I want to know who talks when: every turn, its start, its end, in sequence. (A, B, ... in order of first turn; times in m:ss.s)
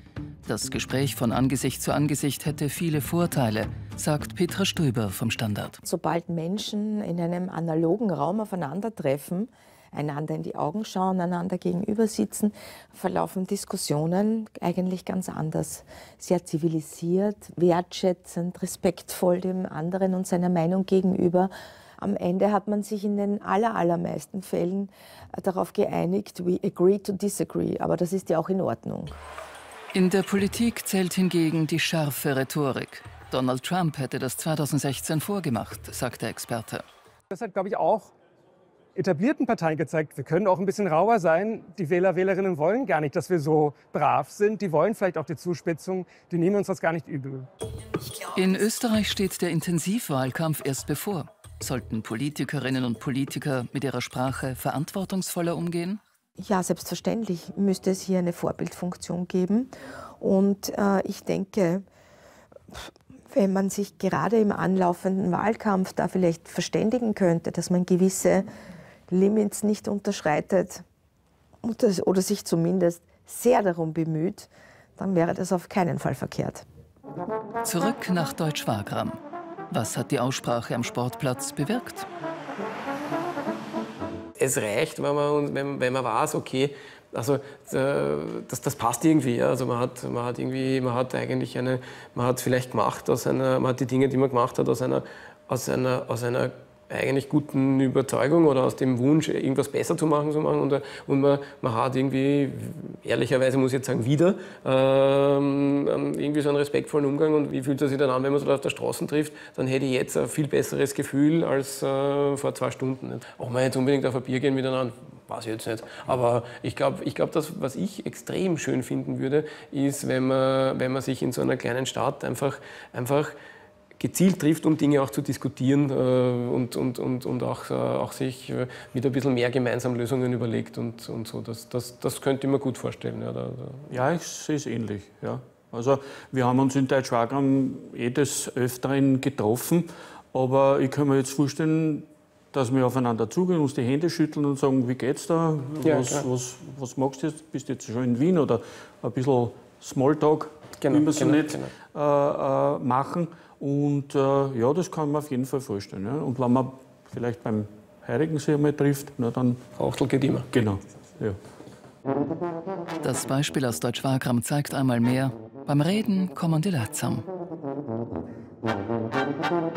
0:00.5-0:05.8 A
0:05.8-0:29.2 B
0:29.9-0:36.8 A
0:37.3-0:38.1 C
0:39.0-0:47.5 C
0:48.2-0:56.0 A
0:56.4-1:01.9 B
1:02.7-1:08.5 B
1:09.1-1:10.8 B
1:11.6-1:16.6 B
1:17.6-1:19.2 A
1:19.7-1:22.1 A
1:24.4-2:03.4 D
2:04.0-2:13.9 D
2:13.9-2:39.7 E
2:25.8-2:26.2 D
2:30.8-2:31.7 D
2:39.8-2:40.5 D
2:40.5-2:41.4 E
2:43.0-2:47.3 A